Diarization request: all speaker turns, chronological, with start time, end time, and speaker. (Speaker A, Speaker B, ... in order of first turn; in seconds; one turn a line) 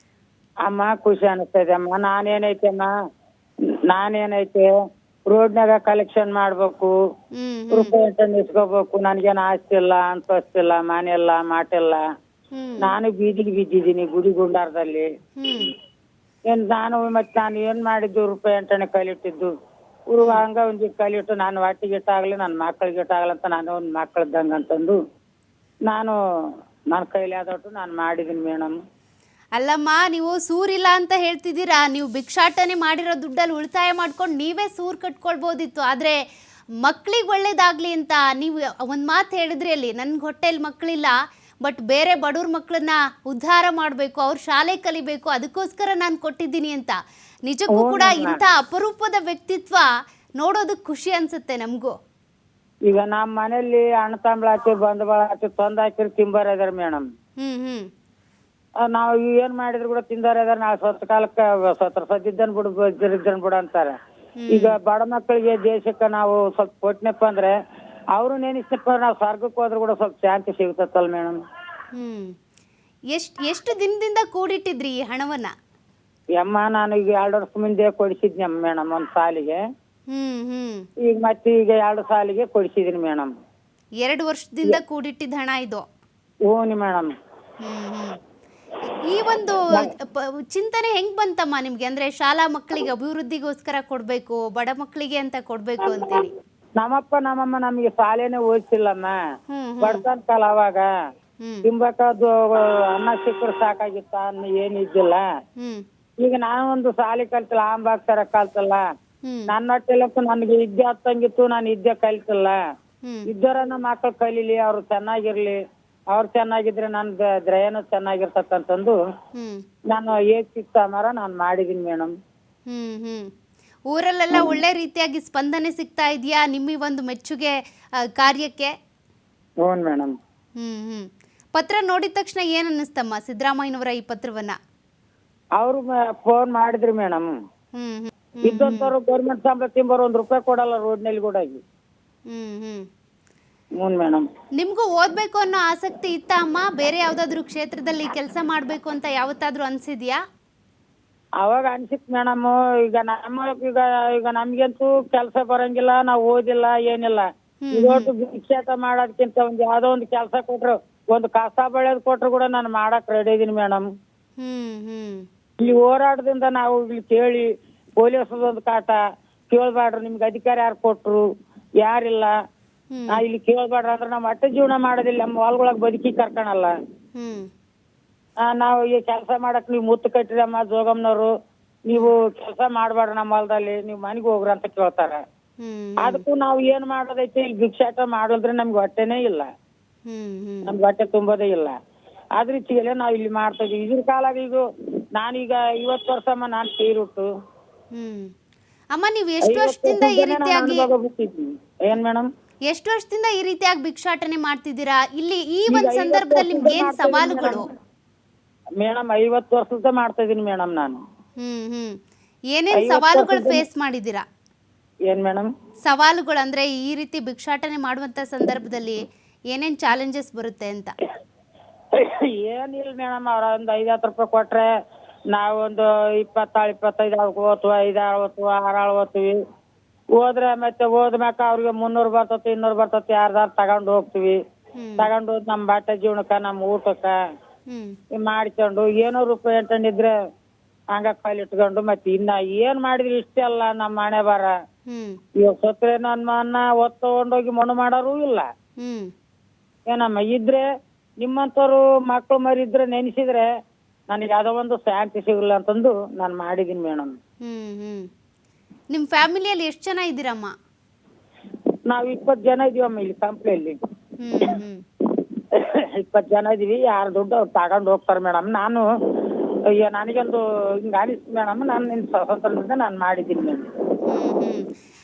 Speaker A: 0.7-2.9
Speaker A: 3.9-4.7
Speaker A: 5.3-6.9
Speaker B: 7.3-7.9
Speaker A: 7.7-12.0
Speaker B: 12.5-12.9
Speaker A: 12.8-15.1
Speaker B: 15.4-15.7
Speaker A: 16.5-19.5
Speaker A: 20.1-25.0
Speaker A: 25.9-26.1
Speaker A: 26.9-28.7
Speaker B: 29.6-36.2
Speaker B: 36.8-49.9
Speaker A: 47.7-48.4
Speaker B: 50.4-52.0
Speaker A: 52.9-57.0
Speaker B: 57.4-57.9
Speaker A: 58.9-63.9
Speaker B: 64.4-64.7
Speaker A: 64.5-67.5
Speaker A: 68.1-71.4
Speaker B: 71.9-72.3
Speaker B: 73.1-75.5
Speaker A: 76.3-79.6
Speaker B: 80.1-80.8
Speaker A: 81.0-83.3
Speaker B: 84.0-85.8
Speaker A: 86.5-87.1
Speaker B: 87.6-88.2
Speaker B: 89.1-96.3
Speaker A: 96.8-99.1
Speaker B: 99.5-100.0
Speaker A: 99.8-100.8
Speaker A: 101.7-105.2
Speaker B: 105.6-105.8
Speaker A: 106.2-108.8
Speaker B: 109.2-109.5
Speaker A: 109.5-112.5
Speaker A: 113.3-115.6
Speaker A: 116.1-119.0
Speaker B: 119.3-119.6
Speaker A: 119.9-122.1
Speaker B: 122.7-123.3
Speaker B: 123.9-128.7
Speaker A: 124.3-124.6
Speaker A: 129.6-130.1
Speaker B: 130.6-134.6
Speaker A: 135.6-137.3
Speaker B: 137.7-138.9
Speaker A: 138.4-141.6
Speaker B: 142.3-142.8
Speaker A: 143.8-144.2
Speaker B: 144.6-150.2
Speaker A: 151.4-163.8
Speaker B: 157.6-158.1
Speaker B: 164.4-165.2
Speaker A: 165.6-167.5
Speaker A: 168.0-169.0
Speaker A: 169.5-171.2
Speaker A: 171.8-172.3
Speaker B: 172.9-173.2
Speaker A: 173.1-176.7
Speaker B: 177.2-177.5
Speaker A: 178.5-181.3
Speaker A: 181.8-185.2
Speaker B: 185.6-186.2
Speaker A: 186.0-189.5
Speaker B: 190.1-190.7
Speaker A: 190.7-191.7
Speaker A: 192.4-194.6
Speaker A: 195.2-197.3
Speaker B: 197.9-198.3
Speaker B: 198.9-200.9
Speaker A: 199.4-202.2
Speaker B: 202.7-207.7
Speaker A: 205.7-207.6
Speaker A: 208.8-211.0
Speaker B: 211.4-212.0
Speaker B: 212.5-214.2
Speaker A: 212.7-213.6
Speaker A: 215.1-215.5
Speaker B: 215.8-219.0
Speaker B: 219.5-220.9
Speaker A: 221.9-224.7
Speaker A: 225.3-229.4
Speaker A: 230.2-234.4
Speaker B: 234.8-235.1
Speaker A: 235.0-237.1
Speaker B: 237.7-237.9
Speaker A: 238.1-240.1
Speaker A: 240.9-244.5
Speaker B: 244.9-245.2
Speaker A: 245.4-248.4
Speaker B: 248.8-249.1
Speaker A: 249.9-250.6
Speaker A: 251.2-253.4
Speaker A: 254.1-257.1
Speaker B: 257.4-258.1
Speaker B: 258.9-260.5
Speaker A: 261.9-263.8
Speaker B: 264.2-264.8
Speaker A: 265.5-268.8
Speaker A: 269.8-273.7
Speaker B: 274.1-274.6